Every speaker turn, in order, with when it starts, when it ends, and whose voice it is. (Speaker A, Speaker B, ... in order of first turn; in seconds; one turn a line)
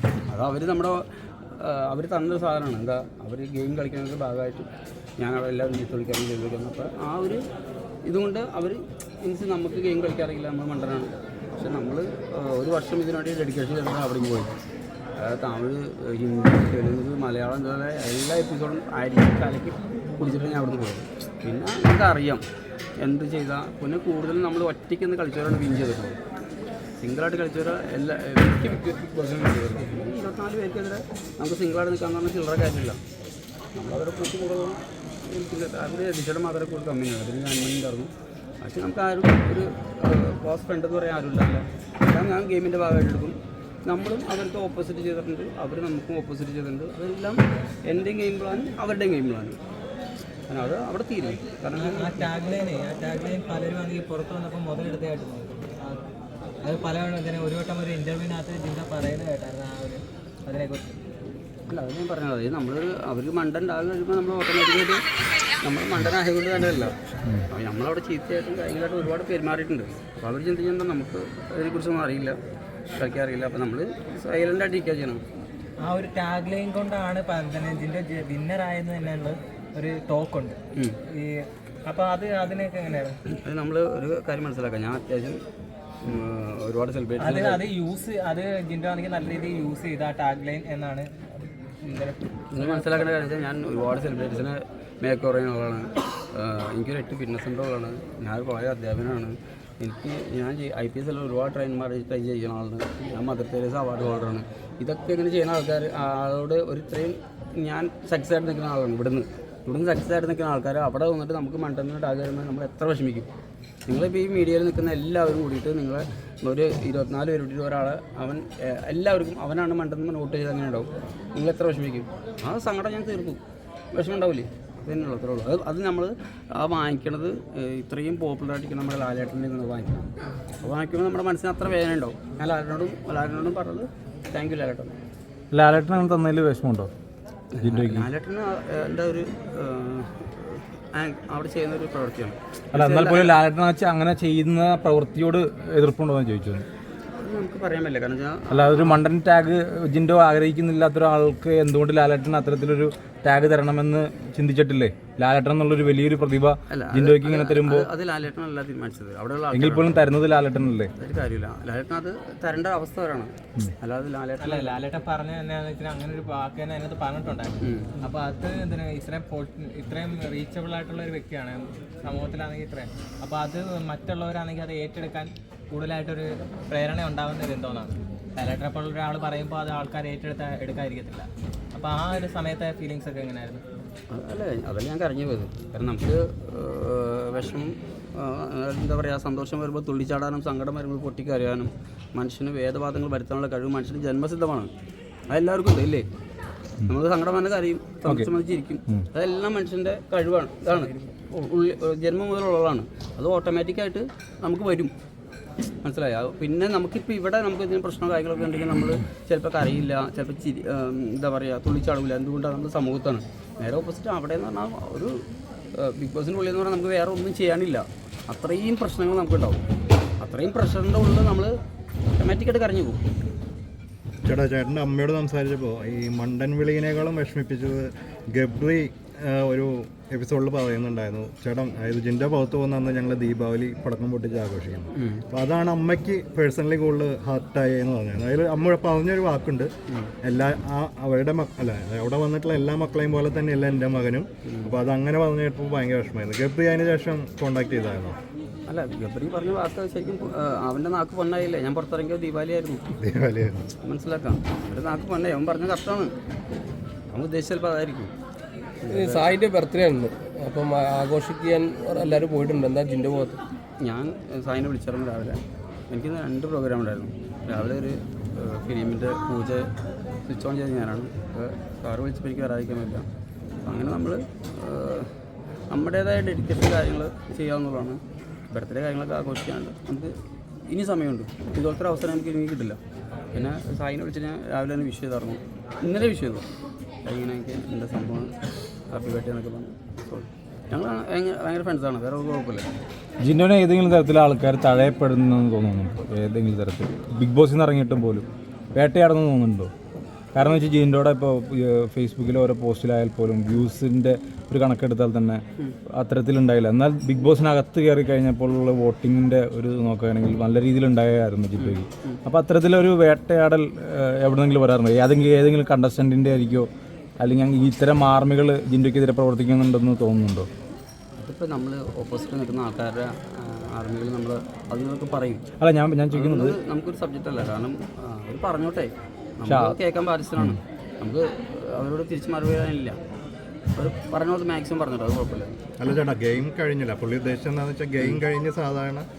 Speaker A: 0.3-7.4
Speaker A: 8.1-14.5
Speaker A: 15.2-22.4
Speaker A: 23.0-26.2
Speaker A: 27.0-33.0
Speaker A: 33.8-49.6
Speaker A: 50.5-52.3
Speaker B: 51.7-56.0
Speaker B: 56.6-60.9
Speaker A: 61.7-65.0
Speaker A: 65.6-67.0
Speaker A: 67.5-72.4
Speaker A: 72.9-75.2
Speaker B: 75.8-83.2
Speaker A: 83.3-85.4
Speaker A: 86.0-87.7
Speaker B: 87.2-93.0
Speaker A: 92.5-113.3
Speaker A: 113.9-123.4
Speaker A: 123.9-135.0
Speaker C: 135.5-136.9
Speaker A: 137.5-143.3
Speaker C: 137.6-138.1
Speaker C: 142.7-146.7
Speaker A: 147.2-149.0
Speaker C: 148.5-157.9
Speaker A: 156.7-160.1
Speaker C: 159.5-160.9
Speaker A: 161.0-164.8
Speaker B: 164.4-183.6
Speaker A: 167.6-168.0
Speaker A: 184.1-194.7
Speaker A: 195.3-196.1
Speaker A: 196.8-204.9
Speaker C: 198.1-198.3
Speaker A: 205.8-215.2
Speaker A: 215.8-219.6
Speaker A: 220.2-221.5
Speaker A: 222.2-223.0
Speaker D: 224.2-239.7
Speaker A: 234.9-235.2
Speaker A: 239.9-240.1
Speaker D: 240.2-248.2
Speaker A: 244.5-244.7
Speaker A: 248.7-252.8
Speaker D: 253.0-253.7
Speaker A: 253.8-256.1
Speaker A: 257.1-258.1
Speaker A: 258.8-259.3
Speaker E: 258.9-263.4
Speaker A: 263.8-269.7
Speaker A: 270.2-273.1
Speaker A: 273.6-275.1
Speaker A: 275.7-280.1
Speaker A: 280.7-282.8
Speaker A: 283.3-286.4
Speaker A: 287.1-288.4
Speaker A: 288.9-292.7
Speaker C: 293.2-299.7
Speaker C: 300.3-320.5
Speaker A: 311.6-312.2
Speaker A: 321.2-325.4
Speaker C: 325.6-326.6
Speaker A: 326.1-333.0
Speaker C: 329.5-329.8
Speaker A: 333.8-335.5
Speaker D: 335.8-339.1